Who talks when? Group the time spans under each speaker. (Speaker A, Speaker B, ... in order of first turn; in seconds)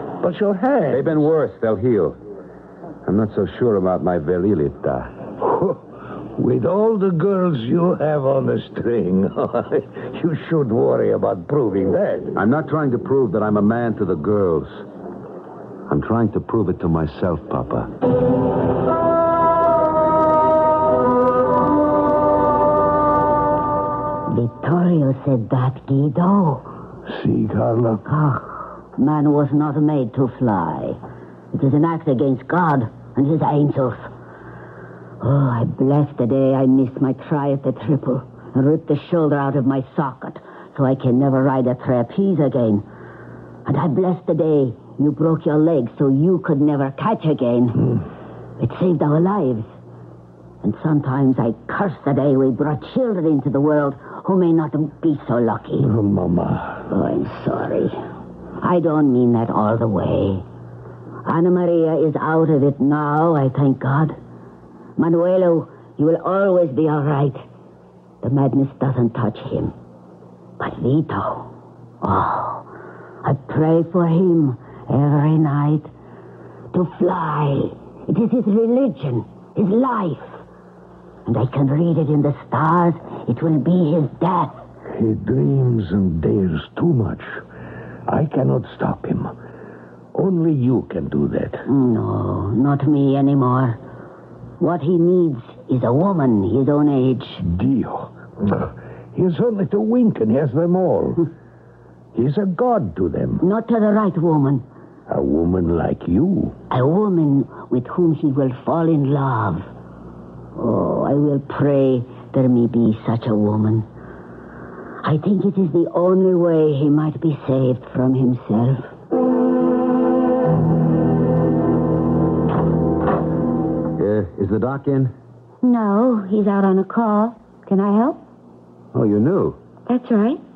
Speaker A: 0.2-1.2, 5.4-5.8, 6.4-12.3, 27.1-28.1, 55.8-56.9, 84.9-87.4, 88.1-89.3, 90.1-91.7, 97.5-101.3, 102.1-103.4, 105.1-106.6
Speaker B: 0.9-2.2, 3.0-5.1, 12.3-14.8, 15.9-17.9, 124.0-125.1, 128.9-129.6
Speaker C: 24.3-26.6, 28.1-31.0, 31.5-34.1, 35.2-42.8, 43.6-47.9, 48.6-49.7, 50.6-55.9, 56.9-58.0, 58.6-60.4, 61.2-64.2, 65.0-67.4, 68.2-69.7, 70.6-71.5, 72.0-72.7, 73.2-75.9, 76.7-80.4, 81.3-84.5, 91.7-93.8, 94.6-97.5, 103.4-104.6, 106.7-109.7, 110.5-113.8, 115.0-118.9, 125.6-128.2, 129.9-130.4